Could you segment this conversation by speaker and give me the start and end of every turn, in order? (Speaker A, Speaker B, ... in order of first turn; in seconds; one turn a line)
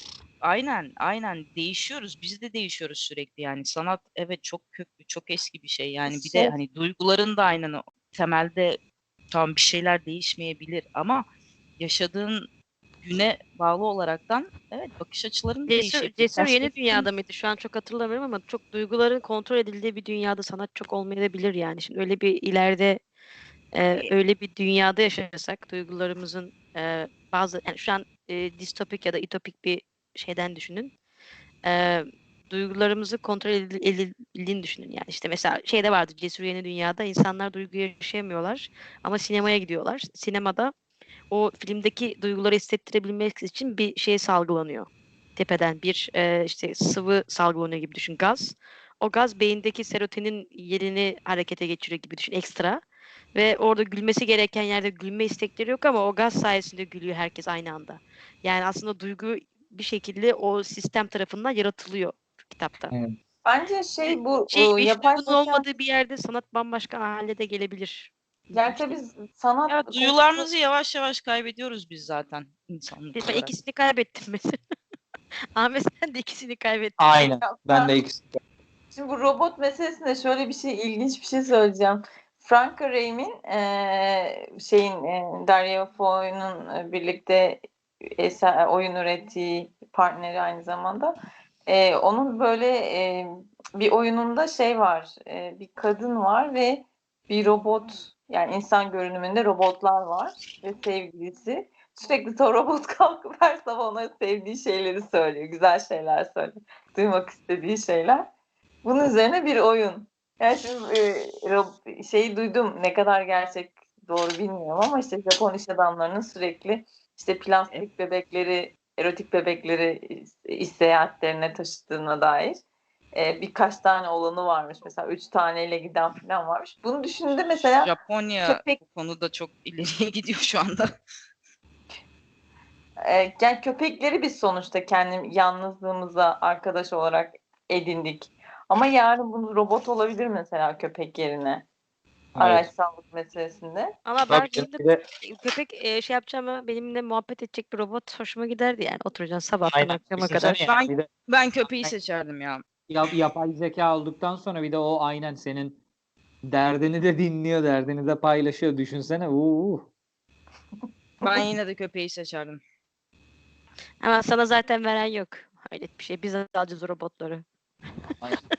Speaker A: 0.4-8.8
Speaker B: 6.1-6.5
Speaker A: 9.3-11.2
Speaker A: 11.8-12.5
Speaker A: 13.0-16.6
Speaker C: 15.7-23.0
Speaker B: 16.4-17.0
Speaker C: 23.7-30.9
Speaker C: 31.6-40.7
Speaker C: 41.3-52.8
Speaker C: 53.3-62.9
Speaker D: 62.9-63.1
Speaker B: 63.4-65.7
Speaker C: 64.0-69.0
Speaker B: 68.5-70.5
Speaker A: 69.7-73.5
Speaker C: 73.1-74.6
Speaker C: 75.5-77.3
Speaker D: 77.0-78.4
Speaker B: 77.4-78.0
Speaker B: 78.9-91.2
Speaker B: 91.7-108.3
Speaker B: 108.8-122.6
Speaker B: 123.1-127.9
Speaker A: 127.8-130.9
Speaker B: 133.0-141.6
Speaker D: 142.3-142.7
Speaker B: 142.4-143.9
Speaker C: 144.0-150.6
Speaker D: 144.3-145.0
Speaker D: 149.7-151.1
Speaker A: 150.6-152.6
Speaker D: 152.9-155.8
Speaker D: 156.4-159.9
Speaker A: 161.2-162.6
Speaker B: 161.2-161.5
Speaker C: 164.0-167.4